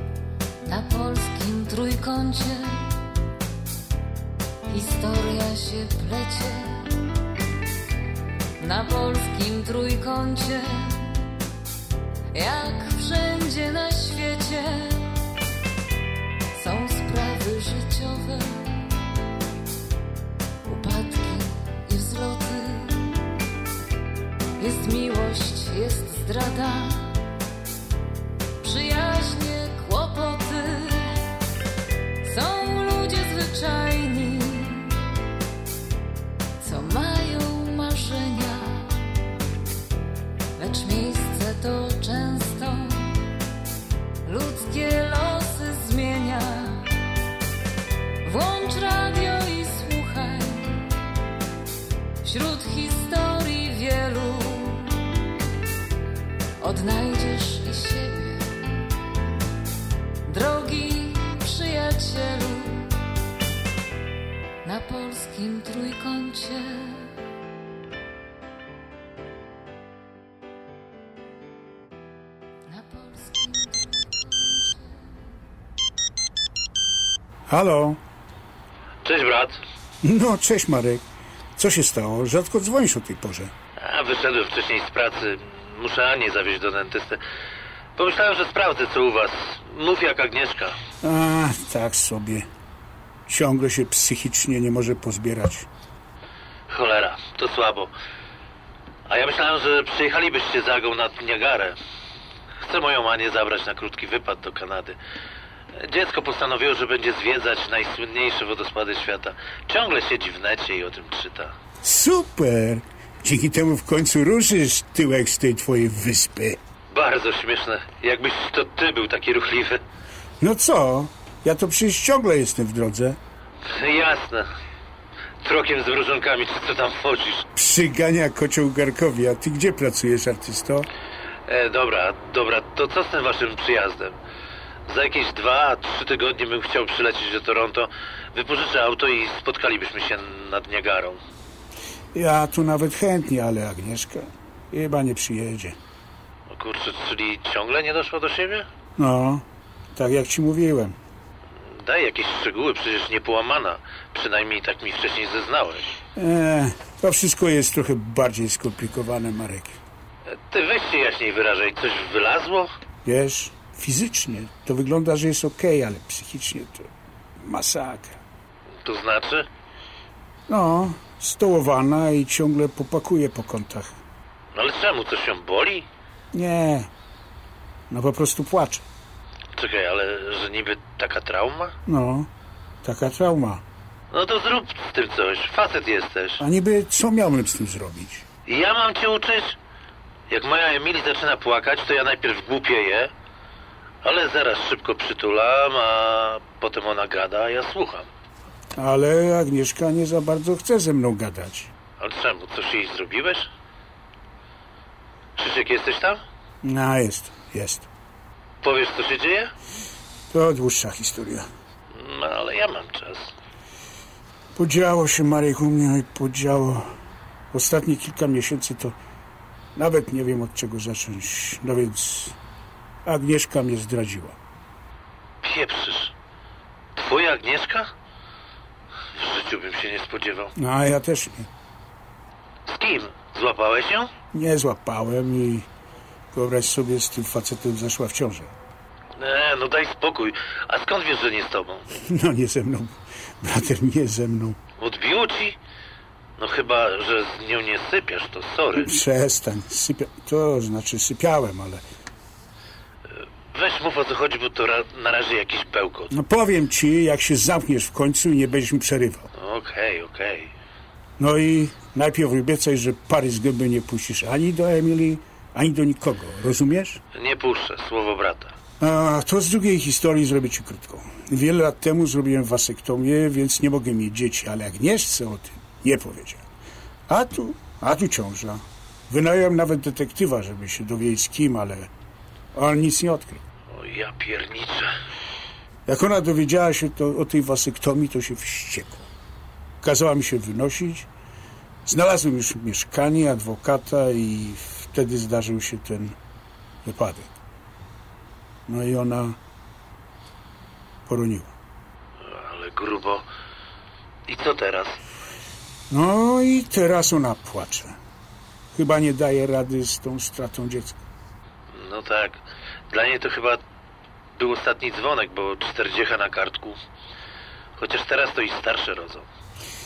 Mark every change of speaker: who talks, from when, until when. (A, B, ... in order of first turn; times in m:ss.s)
0:00.7-0:03.0 A
0:04.7-0:07.1 A
0:08.6-0:11.3 A
0:12.3-0:15.2 A
0:16.5-0:18.8 A
0:20.6-0:23.2 A
0:24.6-0:27.2 A
0:28.6-0:31.2 A
0:32.2-0:35.0 A
0:36.6-0:39.0 A
0:40.6-0:43.3 A
0:44.2-0:46.9 A
0:48.2-0:50.8 A
0:52.2-0:55.1 A
0:56.6-0:58.5 A
1:00.3-1:02.9 A
1:04.6-1:07.1 A
1:12.7-1:15.2 A
1:17.5-1:18.0 B
1:19.0-1:19.6 C
1:20.0-1:21.0 B
1:21.6-1:23.5 B
1:23.8-1:27.2 C
1:28.0-1:30.7 C
1:31.0-1:32.5 B
1:33.3-1:35.7 B
1:36.7-1:37.9 C
1:39.1-1:41.8 C
1:42.7-1:45.0 C
1:45.8-1:51.5 C
1:51.8-1:56.6 B
1:56.9-1:59.8 C
2:00.4-2:03.2 B
2:03.7-2:04.4 C
2:05.4-2:07.5 C
2:07.6-2:10.9 B
2:11.5-2:14.2 C
2:14.9-2:21.2 C
2:22.1-2:25.8 B
2:26.5-2:28.7 C
2:29.0-2:31.0 B
2:31.8-2:35.9 C
2:36.2-2:39.8 B
2:40.5-2:42.7 C
2:43.0-2:46.9 B
2:47.4-2:48.2 B
2:48.8-2:49.5 C
2:50.5-2:53.9 B
2:54.6-2:55.8 C
2:56.3-2:56.9 B
2:57.9-2:58.8 B
2:59.6-3:01.7 C
3:01.9-3:02.3 B
3:02.8-3:03.6 B
3:04.1-3:06.4 C
3:06.4-3:08.2 B
3:08.5-3:09.6 C
3:10.3-3:13.1 C
3:14.0-3:18.1 C
3:18.8-3:21.7 B
3:22.0-3:23.5 C
3:25.4-3:26.2 C
3:26.6-3:27.9 B
3:28.6-3:29.5 C
3:30.3-3:31.5 B
3:31.9-3:33.3 C
3:34.6-3:36.9 B
3:37.5-3:39.0 B
3:39.8-3:42.4 B
3:43.0-3:44.4 B
3:45.4-3:46.1 C
3:47.0-3:47.9 C
3:49.2-3:50.5 C
3:50.6-3:51.5 B
3:52.7-3:54.1 C
3:54.3-3:55.7 B
3:56.3-3:58.5 B
3:59.2-4:01.9 C
4:02.1-4:04.6 B
4:04.8-4:05.6 C
4:06.4-4:09.0 C
4:08.8-4:11.8 B
4:13.5-4:16.1 C
4:16.1-4:19.3 B
4:19.4-4:20.5 C
4:21.2-4:27.0 B
4:27.2-4:28.6 C
4:28.8-4:36.4 B
4:37.1-4:41.9 B
4:42.5-4:43.4 B
4:43.7-4:44.9 C
4:45.9-4:49.1 B
4:49.8-4:51.1 B
4:51.8-4:56.2 B
4:56.8-4:57.3 B
4:58.7-4:59.4 B
5:01.1-5:01.5 B
5:02.3-5:03.2 C
5:04.3-5:05.0 C
5:05.9-5:08.0 B
5:08.7-5:11.0 B
5:11.7-5:13.6 C
5:14.4-5:16.8 C
5:17.8-5:19.2 C